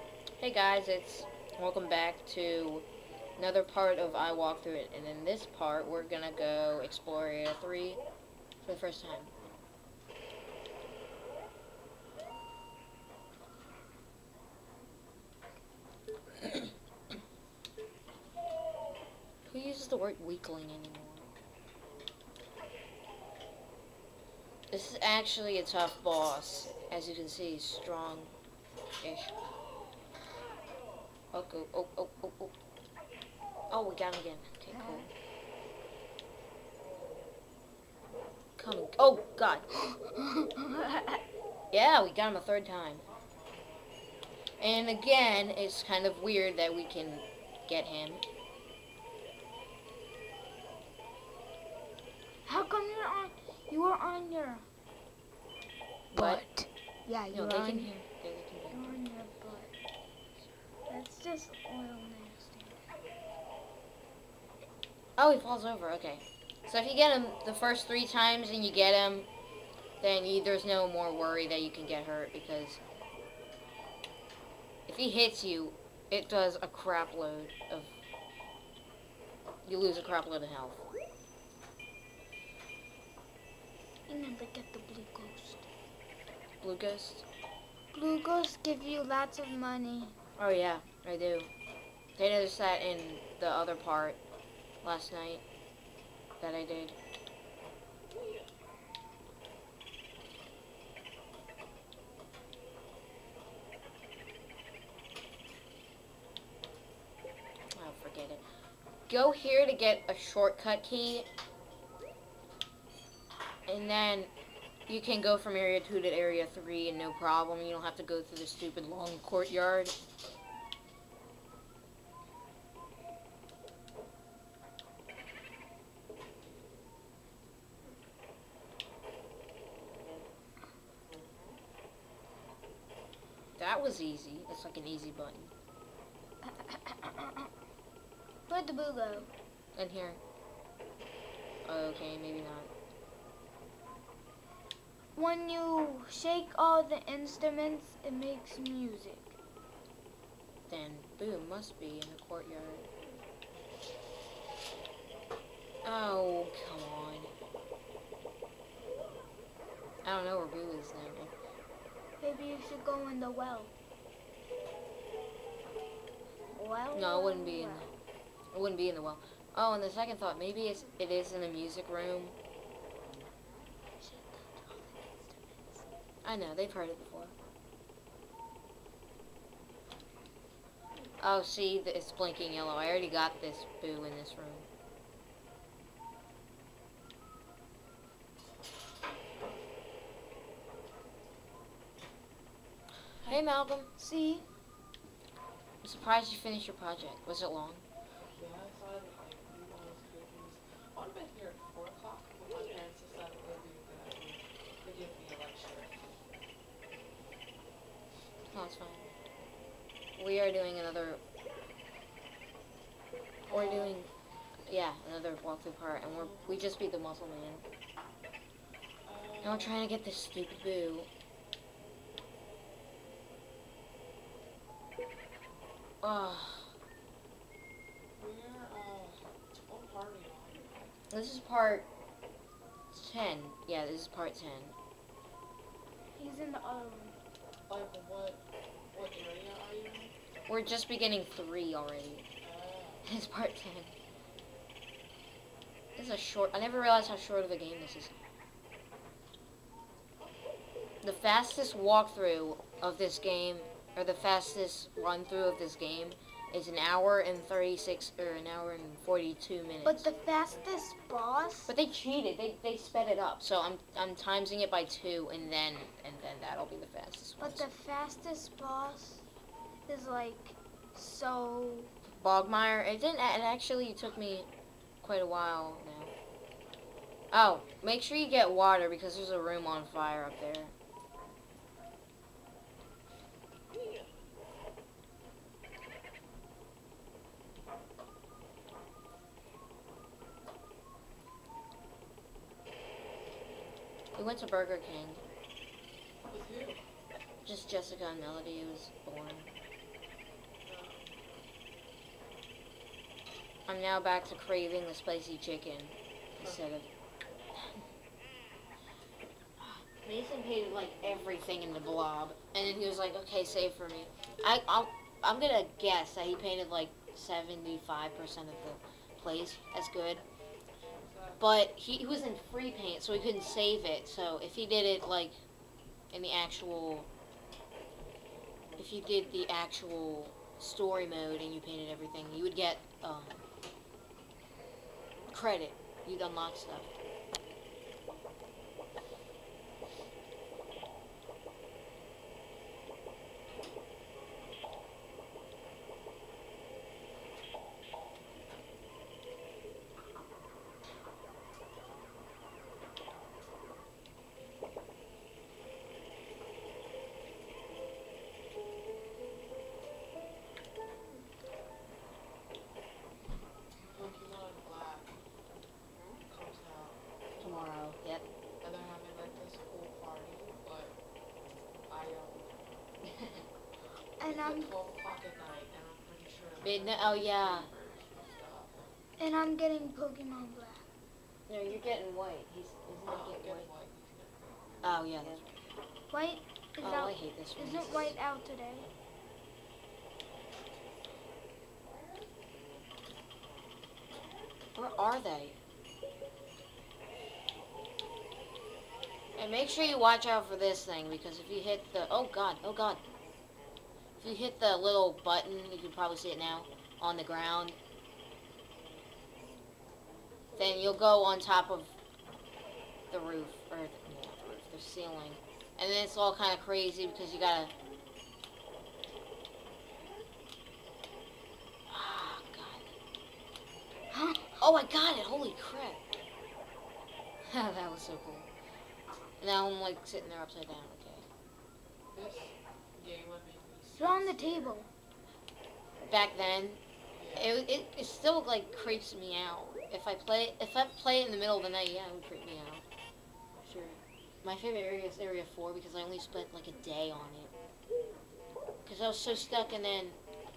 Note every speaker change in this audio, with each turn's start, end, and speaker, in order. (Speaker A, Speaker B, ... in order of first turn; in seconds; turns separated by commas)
Speaker A: 0.4-2.9, Speaker A: 3.4-8.0, Speaker A: 8.6-9.3, Speaker A: 19.5-21.3, Speaker A: 24.7-28.4, Speaker A: 29.0-29.3, Speaker A: 31.3-32.5, Speaker A: 33.7-35.1, Speaker B: 34.7-35.1, Speaker A: 38.6-39.7, Speaker B: 40.0-41.2, Speaker A: 41.7-43.1, Speaker C: 43.2-44.3, Speaker A: 44.6-48.2, Speaker B: 52.5-54.6, Speaker B: 56.1-58.0, Speaker A: 56.1-56.4, Speaker A: 57.3-59.0, Speaker B: 58.7-59.7, Speaker B: 60.9-62.8, Speaker A: 65.2-69.3, Speaker A: 70.0-72.8, Speaker A: 74.9-77.9, Speaker A: 79.7-80.8, Speaker B: 84.1-85.7, Speaker A: 86.6-87.2, Speaker B: 87.9-90.2, Speaker A: 90.4-91.5, Speaker A: 92.2-94.2, Speaker A: 94.8-95.4, Speaker A: 96.4-97.0, Speaker A: 107.7-108.4, Speaker A: 109.1-111.3, Speaker A: 113.7-114.3, Speaker A: 114.9-120.0, Speaker A: 133.6-135.5, Speaker B: 136.4-137.5, Speaker B: 138.5-139.3, Speaker A: 139.8-140.2, Speaker A: 141.7-142.7, Speaker B: 145.2-149.3, Speaker A: 150.7-152.9, Speaker A: 155.8-157.3, Speaker A: 160.0-161.3, Speaker B: 162.2-163.7, Speaker B: 166.6-167.9, Speaker A: 166.9-167.9, Speaker A: 168.5-172.4, Speaker B: 174.0-175.8, Speaker A: 176.2-177.3, Speaker A: 181.2-184.7, Speaker A: 193.2-193.9, Speaker B: 194.0-194.4, Speaker A: 195.8-197.8, Speaker C: 198.3-206.0, Speaker A: 208.5-209.1, Speaker A: 210.2-211.2, Speaker C: 213.4-214.0, Speaker A: 213.5-214.1, Speaker A: 214.7-217.7, Speaker C: 219.1-219.8, Speaker A: 219.4-221.1, Speaker A: 226.0-226.7, Speaker C: 228.2-230.9, Speaker A: 231.1-231.9, Speaker A: 232.9-234.8, Speaker B: 236.2-237.2, Speaker C: 237.7-240.1, Speaker A: 240.5-242.2, Speaker C: 242.4-243.1, Speaker A: 243.1-243.9, Speaker A: 246.0-248.1, Speaker A: 251.0-260.1, Speaker B: 259.9-261.7, Speaker A: 261.7-267.7, Speaker B: 267.4-269.2, Speaker B: 269.9-271.9, Speaker A: 272.2-274.5, Speaker A: 275.0-276.1, Speaker A: 277.3-280.7, Speaker A: 294.2-295.2, Speaker C: 296.3-296.8, Speaker A: 297.4-299.5, Speaker C: 300.6-301.1, Speaker A: 303.7-306.9, Speaker A: 309.6-320.2, Speaker C: 320.9-321.4, Speaker A: 321.4-325.4, Speaker A: 326.1-327.1, Speaker A: 328.8-333.4, Speaker A: 335.3-336.9, Speaker C: 363.9-365.1, Speaker C: 366.3-367.9, Speaker A: 367.4-368.2, Speaker C: 368.6-370.9, Speaker C: 371.9-372.5, Speaker B: 374.2-374.7, Speaker C: 374.3-378.8, Speaker A: 376.6-377.7, Speaker B: 379.2-380.9, Speaker A: 381.5-383.7, Speaker C: 383.0-385.5, Speaker A: 384.8-385.4, Speaker B: 386.1-388.9, Speaker A: 386.8-388.2, Speaker A: 394.8-395.6, Speaker A: 399.4-403.0, Speaker A: 404.2-407.8, Speaker A: 410.6-411.9, Speaker A: 413.1-417.7, Speaker A: 421.9-422.9, Speaker B: 424.1-424.6, Speaker A: 424.6-426.0, Speaker A: 427.5-428.5, Speaker A: 429.4-431.3, Speaker C: 432.1-434.8, Speaker B: 433.9-434.9, Speaker A: 436.1-436.8, Speaker C: 437.1-437.6, Speaker A: 437.3-442.8, Speaker A: 443.6-447.5, Speaker A: 448.9-450.2